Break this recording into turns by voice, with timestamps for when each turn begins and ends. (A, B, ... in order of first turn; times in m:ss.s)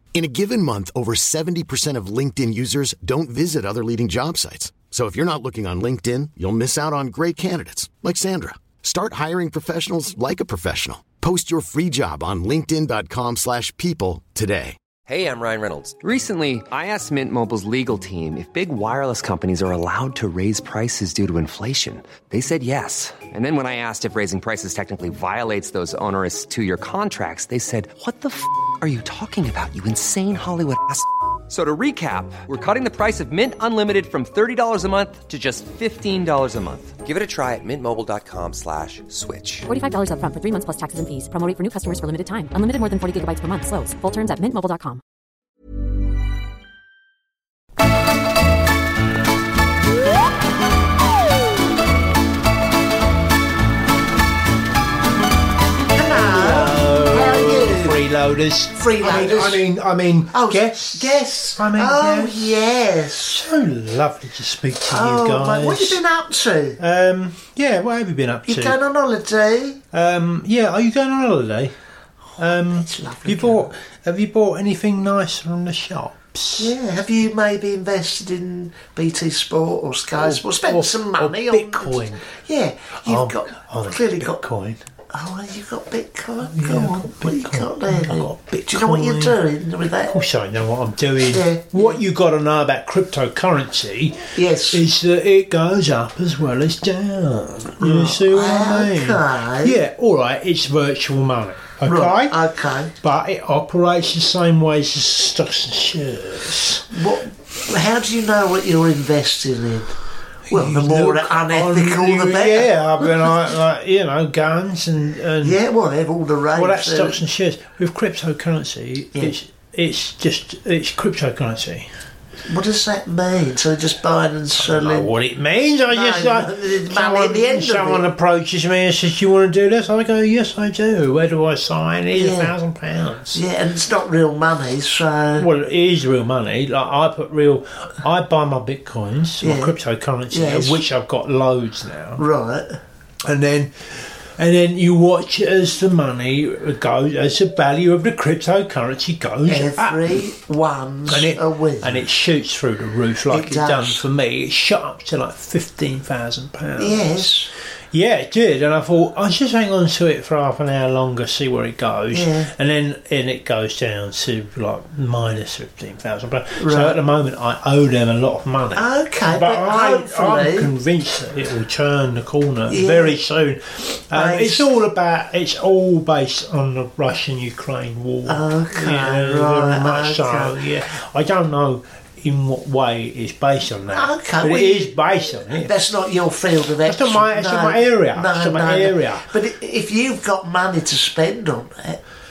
0:00.1-0:14.8 A
0:15.1-0:39.7 B
0:39.7-0:45.0 C
0:55.9-0:58.0 D
0:56.1-1:02.6 E
0:58.7-0:59.6 D
1:00.3-1:03.4 D
1:03.3-1:06.0 E
1:04.9-1:06.8 D
1:06.8-1:08.8 E
1:08.5-1:09.8 D
1:09.9-1:11.8 E
1:12.4-1:16.8 E
1:12.4-1:13.7 D
1:16.6-1:24.4 D
1:20.2-1:22.3 E
1:23.0-1:24.8 E
1:25.1-1:30.2 D
1:26.4-1:29.4 E
1:30.1-1:42.4 E
1:31.2-1:32.0 D
1:34.4-1:34.8 D
1:37.8-1:39.8 D
1:41.8-1:42.9 D
1:43.0-1:46.9 E
1:46.9-1:50.0 D
1:50.5-1:55.6 E
1:50.5-1:53.3 D
1:55.4-1:57.2 D
1:56.5-2:01.9 E
2:02.5-2:05.1 D
2:04.6-2:13.4 E
2:05.9-2:08.1 D
2:12.1-2:12.5 D
2:13.3-2:15.5 D
2:15.4-2:22.2 E
2:19.4-2:19.7 D
2:20.3-2:20.8 D
2:22.2-2:22.7 D
2:23.3-2:30.3 E
2:29.5-2:32.0 D
2:31.1-2:37.3 E
2:33.3-2:34.0 D
2:36.8-2:37.5 D
2:37.9-3:05.8 E
2:42.1-2:42.5 D
2:46.6-2:47.0 D
2:48.8-2:50.7 D
2:52.7-2:53.2 D
2:54.1-2:54.7 D
2:58.3-3:00.6 D
3:03.9-3:12.0 D
3:06.8-3:09.3 E